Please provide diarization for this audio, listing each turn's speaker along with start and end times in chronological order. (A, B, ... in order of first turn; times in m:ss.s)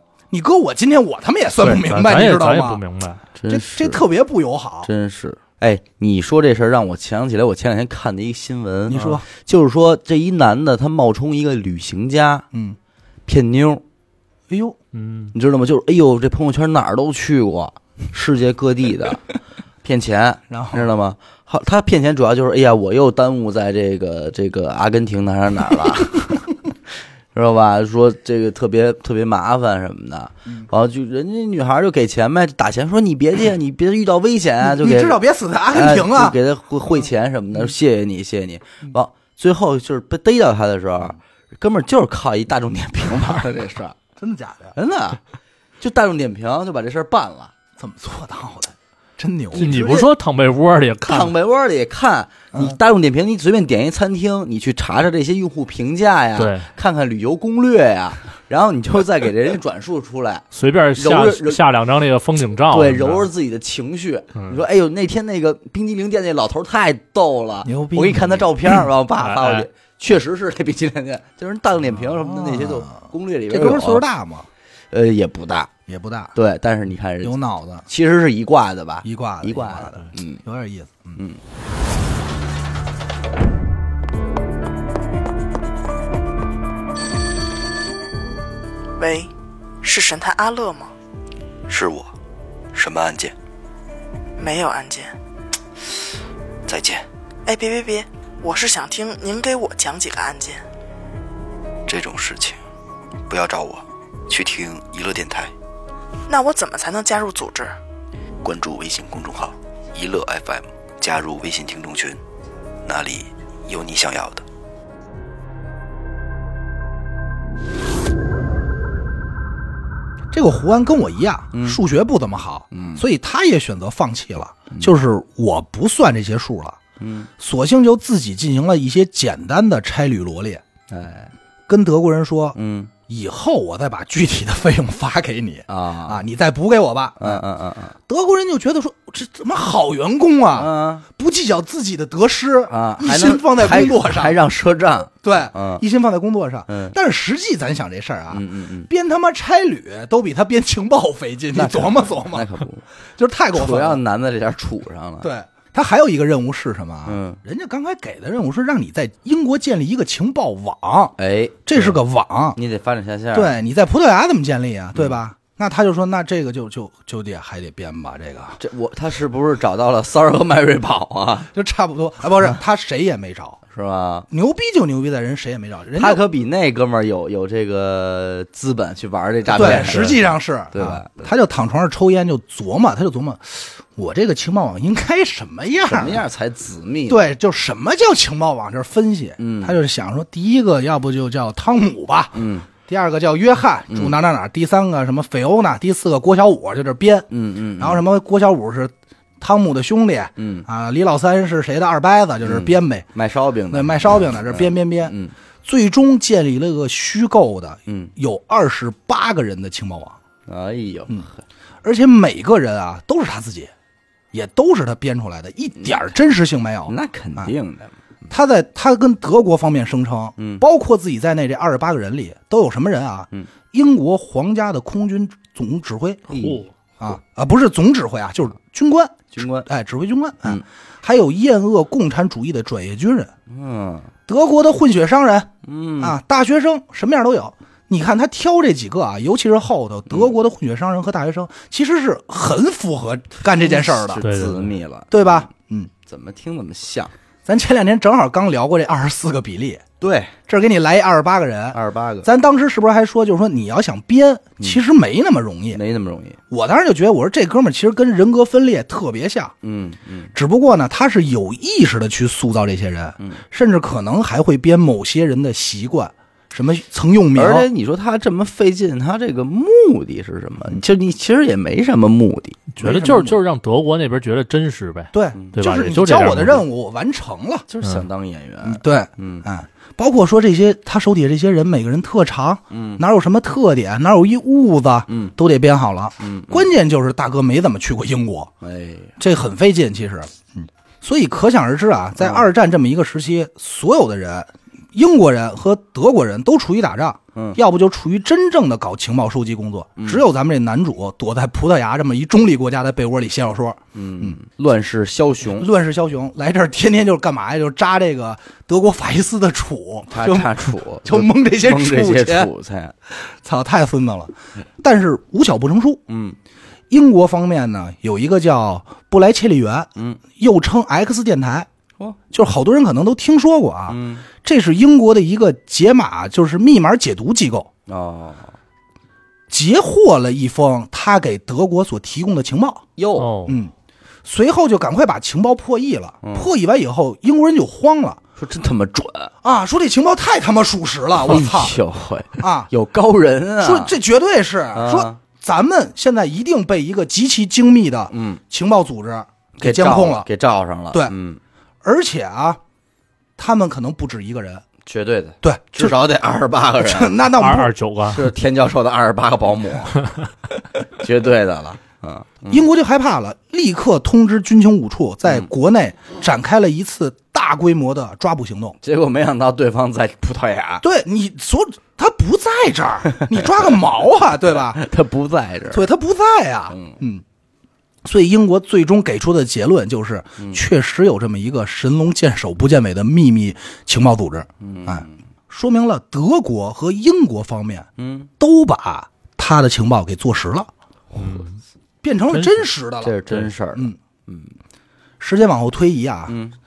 0:00.3-0:02.8 A
0:01.7-0:03.2 B
0:03.4-0:04.0 C
0:03.5-0:04.9 A
0:04.8-0:12.5 C
0:08.9-0:09.2 A
0:13.3-0:13.8 C
0:14.5-0:14.8 A
0:14.9-0:15.3 B
0:15.3-0:19.2 C
0:19.8-0:26.3 C
0:20.5-0:20.9 A
0:27.3-0:35.2 C
0:34.6-0:36.4 A
0:35.7-0:44.0 C
0:44.2-0:44.8 A
0:44.8-0:45.2 C
0:45.8-0:47.5 C
0:47.8-0:49.8 A
0:49.5-0:51.3 B
0:49.6-0:50.1 C
0:51.1-1:01.6 C
0:52.5-0:52.8 A
0:56.4-0:56.7 B
1:00.5-1:03.3 B
1:02.7-1:14.0 C
1:07.7-1:08.9 A
1:09.2-1:09.7 B
1:12.1-1:14.5 A
1:14.9-1:15.7 C
1:15.9-1:16.3 A
1:16.4-1:20.4 C
1:17.2-1:17.9 A
1:19.0-1:21.2 A
1:29.0-1:29.3 D
1:29.8-1:30.9 D
1:31.7-1:32.1 E
1:32.7-1:33.3 E
1:34.4-1:35.2 D
1:36.7-1:37.0 E
1:37.5-1:40.6 D
1:41.9-1:42.6 E
1:43.3-1:45.5 E
1:46.3-1:47.8 D
1:48.4-1:52.2 E
1:52.9-1:54.4 E
2:00.3-2:06.8 A
2:01.5-2:01.8 C
2:02.7-2:03.0 C
2:07.0-2:07.3 C
2:07.4-2:10.6 A
2:10.9-2:11.3 C
2:11.7-2:12.6 A
2:12.6-2:12.9 C
2:13.1-2:17.4 A
2:15.7-2:16.2 C
2:17.2-2:18.0 C
2:18.1-2:24.4 A
2:20.6-2:21.0 C
2:22.7-2:25.8 C
2:25.2-2:32.5 A
2:26.7-2:27.0 C
2:28.3-2:28.9 C
2:31.6-2:32.8 C
2:33.2-2:34.0 A
2:33.5-2:35.3 C
2:35.2-2:41.2 A
2:37.1-2:37.4 C
2:41.2-2:42.0 C
2:41.7-2:42.6 A
2:42.6-2:43.6 C
2:43.3-2:48.6 A
2:48.6-2:51.5 C
2:51.5-2:53.6 A
2:53.7-2:54.3 C
2:54.3-2:56.2 A
2:56.0-3:01.3 C
2:59.5-3:06.2 A
3:05.9-3:07.3 C
3:07.1-3:23.1 A
3:09.4-3:09.8 C
3:12.3-3:12.7 C
3:17.3-3:18.0 C
3:20.4-3:20.7 C
3:22.4-3:25.3 C
3:23.7-3:30.2 A
3:30.5-3:31.4 C
3:31.8-3:33.7 A
3:34.3-3:37.5 A
3:36.9-3:37.9 C
3:38.3-3:46.3 A
3:40.4-3:40.6 C
3:46.3-3:47.2 C
3:46.3-3:46.7 B
3:47.0-3:53.3 A
3:49.3-3:49.7 C
3:53.5-3:54.1 C
3:54.3-4:04.2 A
3:55.6-3:56.2 C
4:03.6-4:05.5 C
4:04.2-4:04.7 B
4:05.1-4:05.9 A
4:06.0-4:07.1 C
4:07.5-4:09.8 A
4:10.0-4:10.3 C
4:10.5-4:15.8 A
4:11.7-4:12.3 C
4:15.7-4:16.4 C
4:16.5-4:19.5 A
4:19.6-4:20.3 C
4:20.4-4:27.7 A
4:27.4-4:32.6 C
4:32.7-4:36.6 B
4:32.8-4:33.4 A
4:35.1-4:37.7 A
4:37.7-4:39.4 C
4:38.6-4:48.5 A
4:42.7-4:43.0 C
4:45.1-4:45.3 C
4:46.2-4:46.7 C
4:48.6-4:49.1 C
4:49.2-5:04.4 A
5:00.0-5:00.2 C
5:03.9-5:05.7 C
5:05.4-5:12.5 A
5:10.1-5:12.9 C
5:13.1-5:16.0 A
5:16.1-5:16.4 C
5:16.9-5:21.7 A
5:22.3-5:27.7 A
5:23.9-5:24.3 C
5:27.9-5:28.6 C
5:29.5-5:32.8 A
5:33.0-5:33.3 C
5:33.2-5:33.6 B
5:33.5-5:33.7 A
5:34.2-5:38.2 A
5:36.2-5:36.5 C
5:38.4-5:39.3 C
5:39.4-5:41.8 A
5:41.2-5:44.0 C
5:42.4-5:42.7 A
5:43.6-5:50.3 A
5:44.7-5:45.2 C
5:48.1-5:48.4 C
5:49.6-5:51.4 C
5:51.8-5:52.6 A
5:53.4-5:54.6 A
5:54.9-5:57.2 C
5:55.4-5:56.0 A
5:56.8-5:57.7 A
5:57.4-5:58.3 B
5:58.1-6:00.0 C
6:01.0-6:02.6 C
6:02.5-6:08.8 A
6:08.8-6:10.8 C
6:10.8-6:14.8 A
6:13.1-6:13.7 C
6:14.7-6:15.9 C
6:15.7-6:17.2 A
6:16.7-6:17.0 C
6:18.0-6:27.9 A
6:20.4-6:20.6 C
6:24.6-6:25.2 C
6:28.0-6:28.3 C
6:28.4-6:30.7 A
6:31.2-6:31.6 B
6:32.0-6:34.0 A
6:32.3-6:32.6 B
6:33.0-6:34.6 C
6:35.2-6:36.4 A
6:36.3-6:36.6 C